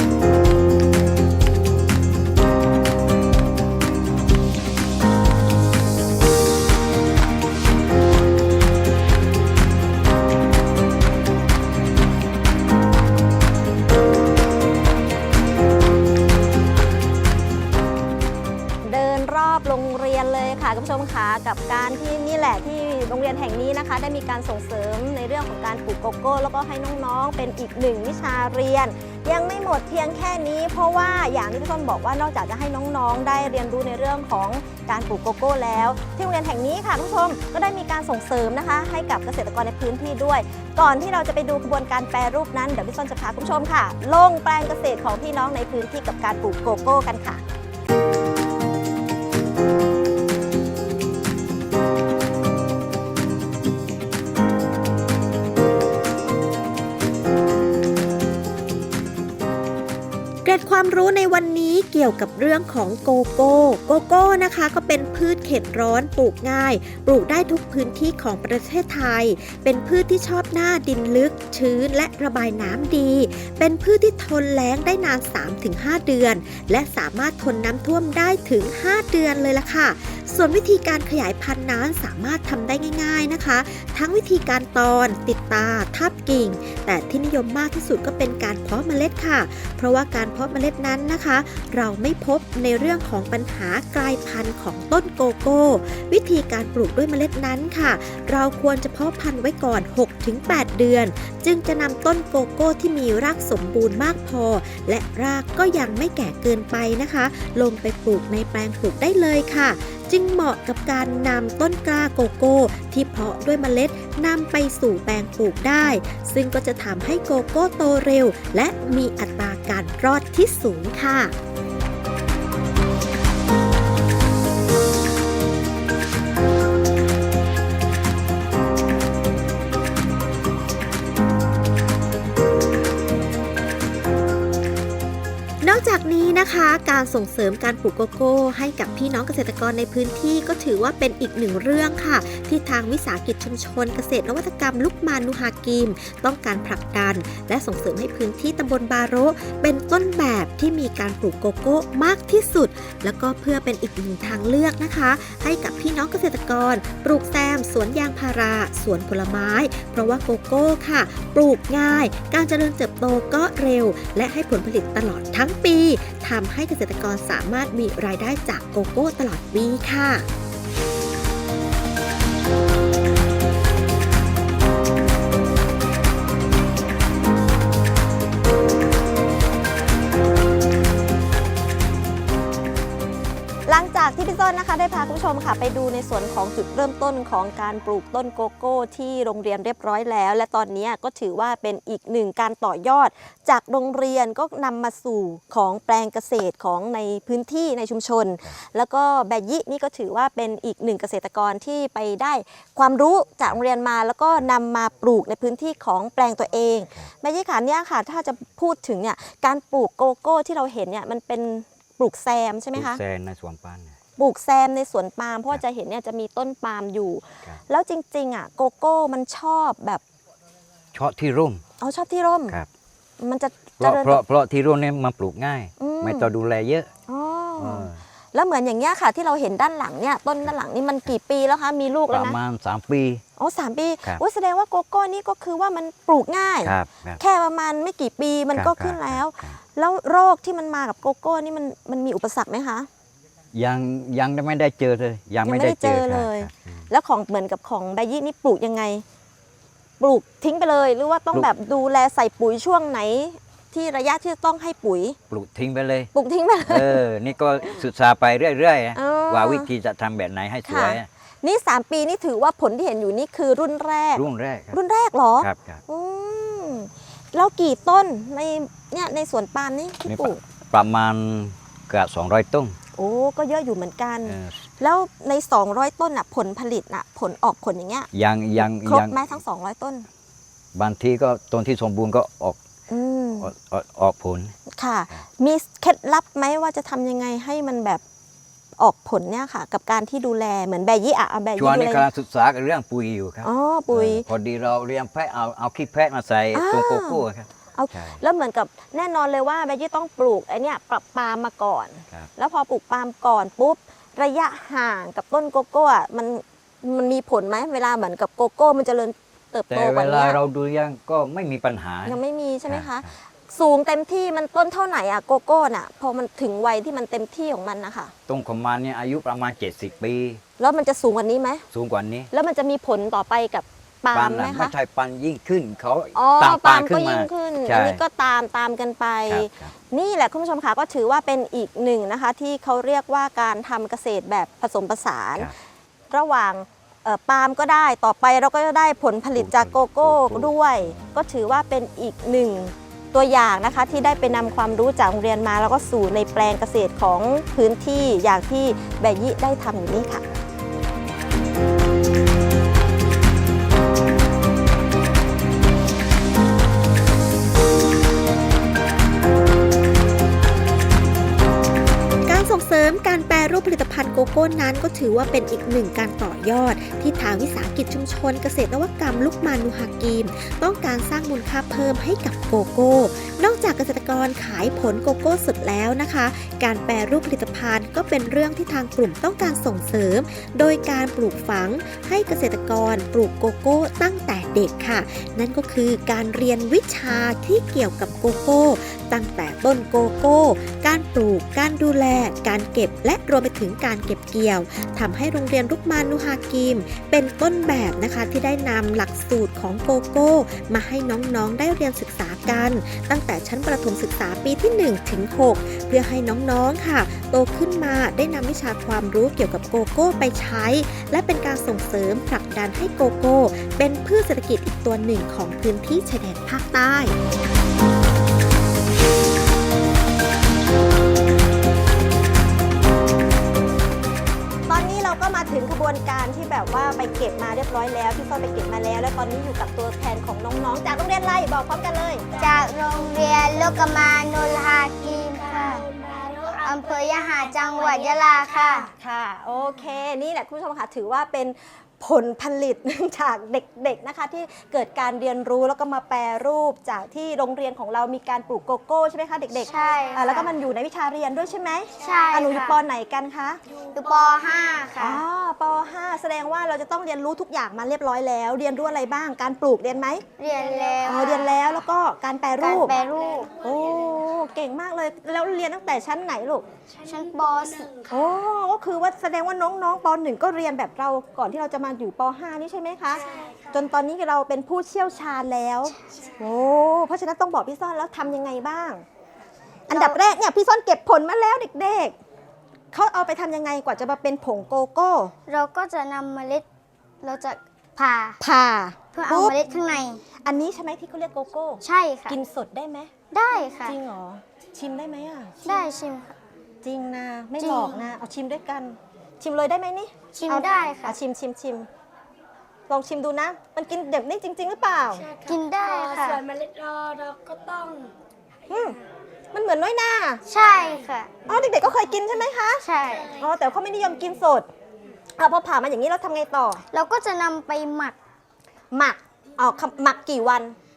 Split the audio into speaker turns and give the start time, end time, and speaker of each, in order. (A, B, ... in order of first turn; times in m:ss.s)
0:18.8-0:47.4 A
1:00.4-2:01.3 B
2:15.6-2:50.3 B
3:03.7-3:33.0 A
3:32.7-3:34.0 C
3:34.2-3:40.0 A
3:40.9-3:41.6 C
3:41.8-3:42.6 A
3:43.2-3:44.2 A
3:43.8-3:46.9 C
3:45.8-3:46.3 A
3:47.1-3:52.4 A
3:47.6-3:48.0 C
3:52.1-3:53.2 C
3:53.4-4:02.9 A
3:56.6-3:57.2 C
3:58.6-3:59.6 C
4:03.5-4:06.9 C
4:05.4-4:09.0 A
4:10.0-4:15.2 A
4:15.3-4:16.1 C
4:16.1-4:17.0 A
4:16.6-4:21.1 C
4:19.0-4:19.7 A
4:20.7-4:30.4 A
4:24.2-4:24.8 C
4:25.4-4:25.8 C
4:30.1-4:32.8 C
4:33.0-4:40.1 A
4:34.3-4:34.6 C
4:38.1-4:39.2 C
4:40.8-4:42.6 C
4:42.9-4:43.5 A
4:43.4-4:44.6 C
4:44.8-4:48.0 A
4:48.8-4:52.0 A
4:51.6-4:58.2 C
4:53.4-4:54.2 A
4:56.5-4:57.2 A
4:57.8-5:10.4 A
5:09.7-5:13.1 C
5:12.0-5:18.1 A
5:18.3-5:20.4 C
5:20.6-5:21.6 A
5:21.7-5:22.3 C
5:22.3-5:24.7 A
5:24.1-5:28.0 C
5:26.2-5:35.5 A
5:29.3-5:29.8 C
5:36.1-5:50.2 A
5:39.4-5:41.0 C
6:02.3-6:57.2 B
7:04.7-7:12.2 A
7:12.3-7:12.6 D
7:12.4-7:15.8 E
7:15.0-7:18.9 D
7:16.6-7:18.9 E
7:18.8-7:33.6 A
7:29.6-7:30.6 E
7:29.7-7:30.5 D
7:32.0-7:32.4 D
7:32.0-7:32.8 E
7:33.7-7:34.9 D
7:33.9-7:35.2 E
7:35.0-7:40.2 A
7:40.4-7:41.6 E
7:40.5-7:41.8 D
7:41.0-7:43.0 A
7:42.6-7:43.5 E
7:42.7-7:44.4 D
7:43.6-7:46.6 A
7:46.9-7:48.4 D
7:47.1-7:47.9 E
7:48.1-7:59.0 A
7:53.1-7:53.9 D
7:56.1-7:56.5 D
7:59.9-8:02.2 A
7:59.9-8:00.2 E
8:02.9-8:05.3 A
8:05.5-8:06.7 E
8:07.2-8:08.4 E
8:08.4-8:09.6 A
8:09.1-8:10.2 E
8:10.4-8:13.1 A
8:11.8-8:12.4 E
8:13.3-8:14.0 E
8:13.8-8:15.6 A
8:15.6-8:16.4 E
8:16.8-8:21.9 A
8:17.6-8:18.1 E
8:20.3-8:21.2 E
8:22.9-8:25.2 A
8:25.1-8:28.1 D
8:25.5-8:26.4 E
8:26.1-8:26.4 A
8:28.7-8:29.1 D
8:28.7-8:29.0 A
8:29.5-8:30.4 A
8:30.5-8:31.3 E
8:30.5-8:31.2 D
8:31.5-8:34.7 A
8:31.9-8:33.5 D
8:32.8-8:33.4 E
8:35.4-8:36.8 A
8:36.9-8:38.2 E
8:38.9-8:40.8 A